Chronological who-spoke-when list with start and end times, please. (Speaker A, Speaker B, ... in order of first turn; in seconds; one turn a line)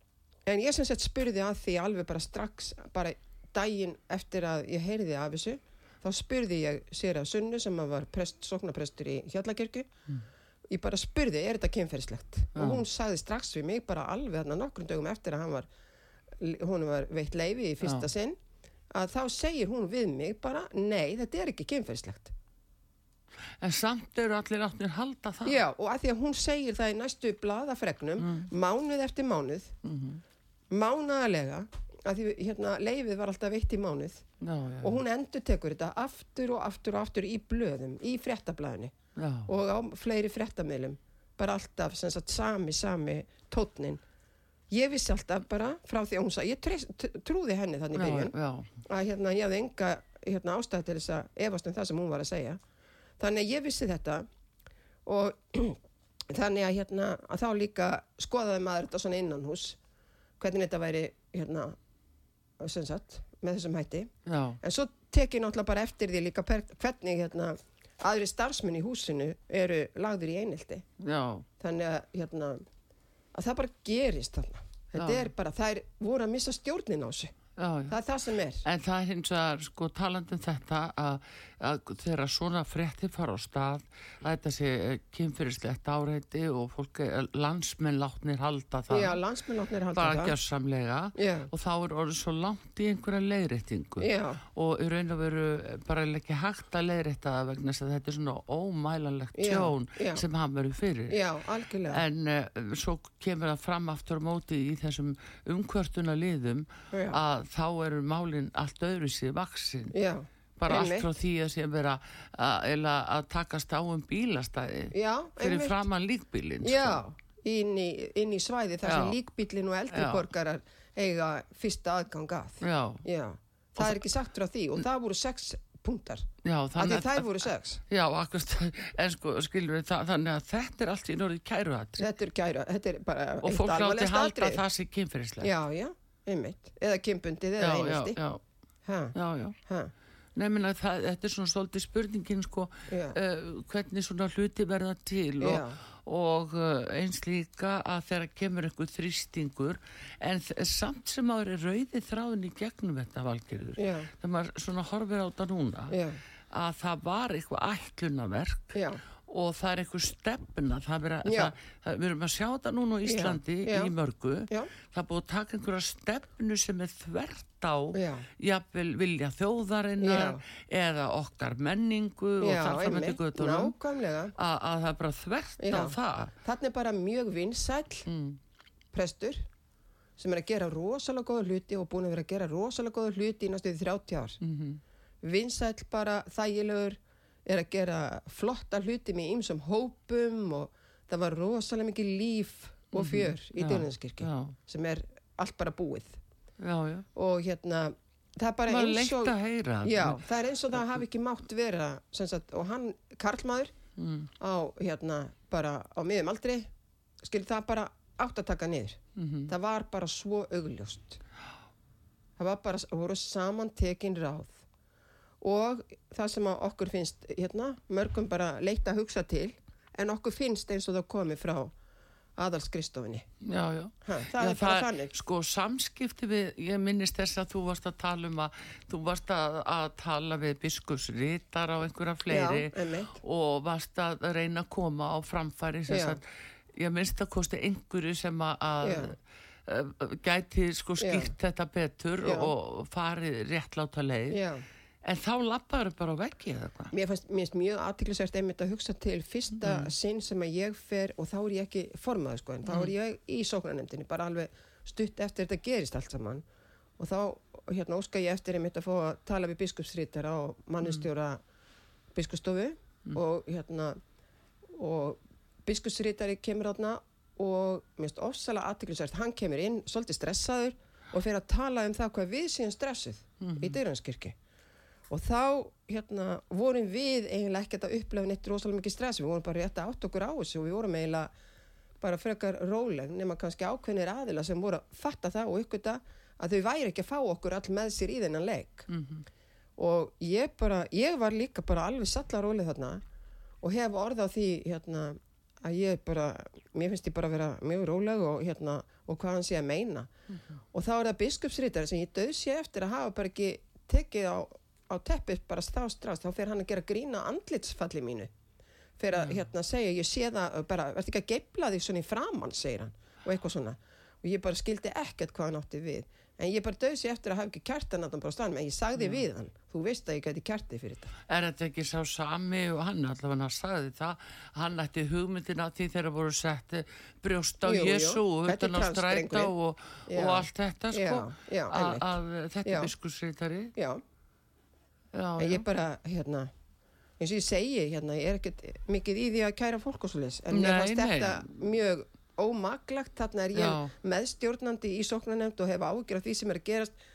Speaker A: 0.5-9.9
Speaker A: 10.7-15.7
Speaker B: 12.5-12.8
Speaker A: 16.4-18.4
Speaker B: 17.8-18.1
Speaker A: 18.9-22.3
Speaker B: 23.6-25.6
Speaker A: 25.4-29.7
Speaker B: 28.2-28.5
Speaker B: 29.8-30.2
Speaker A: 30.7-34.2
Speaker B: 34.4-35.0
Speaker A: 34.8-38.9
Speaker B: 39.1-39.5
Speaker A: 39.5-44.0
Speaker A: 44.7-52.6
Speaker B: 47.9-48.7
Speaker A: 53.2-54.2
Speaker A: 55.0-55.8
Speaker A: 56.3-59.8
Speaker A: 60.4-61.8
Speaker A: 62.6-70.8
Speaker B: 64.2-64.6
Speaker B: 71.0-71.5
Speaker A: 71.6-72.6
Speaker A: 73.3-77.3
Speaker B: 75.0-75.3
Speaker B: 77.6-77.9
Speaker A: 77.9-78.6
Speaker B: 78.6-89.2
Speaker A: 88.9-90.3
Speaker B: 89.9-101.2
Speaker A: 91.2-91.5
Speaker A: 94.0-94.4
Speaker A: 99.3-100.2
Speaker A: 101.1-102.0
Speaker B: 101.9-109.9
Speaker A: 106.9-107.2
Speaker A: 109.9-111.1
Speaker B: 110.6-117.0
Speaker A: 114.9-115.8
Speaker A: 116.6-127.8
Speaker B: 118.8-119.2
Speaker B: 119.9-120.2
Speaker B: 122.6-123.0
Speaker B: 123.8-124.1
Speaker B: 126.4-132.0
Speaker A: 132.0-134.6
Speaker B: 133.4-135.5
Speaker A: 135.4-138.2
Speaker B: 137.6-138.4
Speaker A: 138.8-139.1
Speaker B: 139.1-139.6
Speaker A: 139.7-139.9
Speaker B: 140.3-155.9
Speaker A: 142.9-143.2
Speaker A: 145.4-145.8
Speaker A: 153.8-154.1
Speaker A: 155.9-156.2
Speaker B: 156.5-173.8
Speaker A: 158.7-159.0
Speaker A: 161.2-161.5
Speaker A: 163.1-163.9
Speaker A: 167.9-168.2
Speaker A: 170.0-170.4
Speaker A: 172.4-174.3
Speaker B: 174.3-176.3
Speaker A: 175.6-178.1
Speaker B: 178.1-178.4
Speaker A: 178.9-179.4
Speaker A: 180.2-184.4
Speaker B: 184.4-184.8
Speaker A: 185.2-196.2
Speaker B: 192.9-194.6
Speaker B: 196.6-197.1
Speaker A: 197.1-203.7
Speaker B: 198.7-200.2
Speaker B: 200.7-201.0
Speaker B: 204.0-204.3
Speaker A: 204.4-206.7
Speaker A: 207.2-211.2
Speaker B: 209.2-209.5
Speaker A: 212.4-214.6
Speaker A: 215.4-221.7
Speaker A: 222.4-223.3
Speaker B: 223.4-236.2
Speaker A: 224.0-225.1
Speaker A: 232.3-233.2
Speaker A: 235.9-236.2
Speaker B: 236.7-244.4
Speaker A: 238.8-239.1
Speaker A: 241.0-241.3
Speaker A: 242.2-242.5
Speaker A: 244.3-244.6
Speaker B: 245.0-246.9
Speaker A: 246.9-256.4
Speaker B: 249.6-249.9
Speaker B: 252.7-252.9
Speaker A: 257.0-261.4
Speaker A: 262.1-264.0
Speaker A: 264.7-274.4
Speaker B: 273.4-273.8
Speaker A: 275.1-281.3
Speaker A: 282.0-288.9
Speaker B: 288.9-289.2
Speaker A: 289.8-293.0
Speaker A: 293.6-300.1
Speaker A: 300.7-308.3
Speaker A: 309.0-321.1
Speaker B: 321.3-333.7
Speaker A: 327.6-329.5
Speaker A: 330.1-332.9
Speaker A: 333.7-334.0
Speaker B: 335.1-335.6
Speaker A: 335.4-336.5
Speaker A: 337.2-346.9
Speaker B: 340.5-341.5
Speaker B: 343.5-343.9